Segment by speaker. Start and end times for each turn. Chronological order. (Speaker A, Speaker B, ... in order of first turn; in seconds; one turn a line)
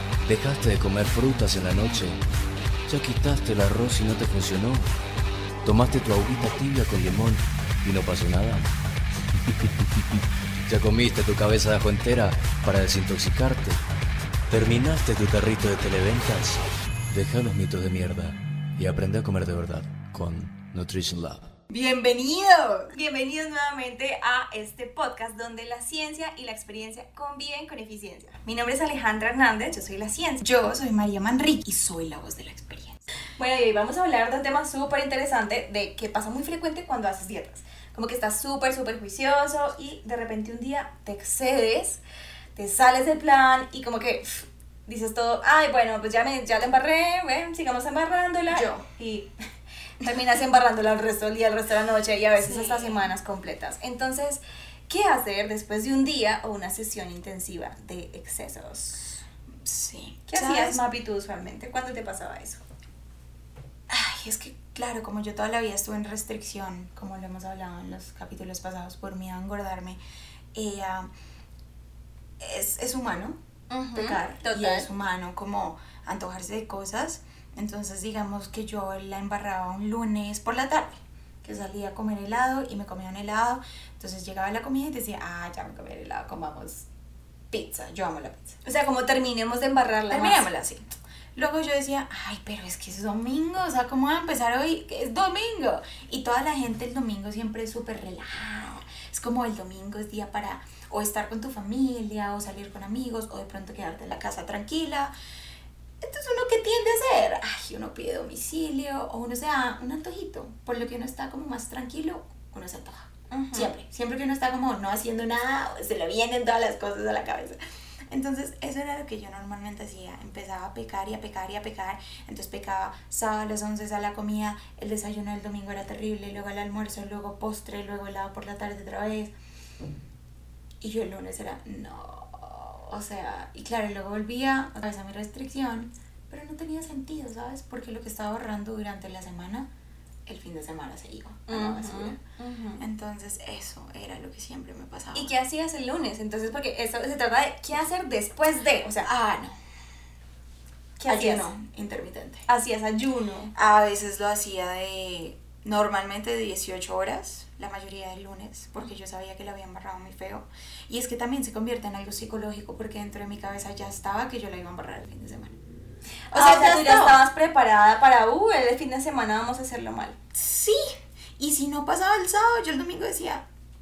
Speaker A: 0.3-2.2
Speaker A: 2.9-4.9
Speaker A: 5.6-8.7
Speaker A: 9.5-13.8
Speaker A: 14.5-21.5
Speaker B: 21.7-22.9
Speaker C: 22.9-30.4
Speaker B: 30.4-33.0
Speaker C: 33.4-42.0
Speaker C: 42.5-49.3
Speaker B: 48.5-48.9
Speaker C: 50.0-59.1
Speaker B: 52.4-53.1
Speaker B: 59.6-60.8
Speaker C: 60.3-62.6
Speaker B: 63.9-70.0
Speaker B: 70.5-71.1
Speaker B: 72.4-73.4
Speaker C: 73.7-74.9
Speaker B: 73.9-86.9
Speaker B: 87.5-88.6
Speaker C: 88.6-90.5
Speaker B: 90.1-105.1
Speaker B: 106.0-117.6
Speaker C: 113.3-113.7
Speaker B: 118.1-129.3
Speaker B: 130.8-139.7
Speaker B: 140.3-142.2
Speaker C: 141.5-142.8
Speaker B: 142.8-145.3
Speaker C: 145.1-149.1
Speaker B: 149.0-149.6
Speaker C: 151.0-151.5
Speaker B: 151.1-152.5
Speaker C: 152.5-153.5
Speaker B: 153.6-165.6
Speaker B: 166.3-167.3
Speaker C: 166.3-170.2
Speaker B: 170.3-173.4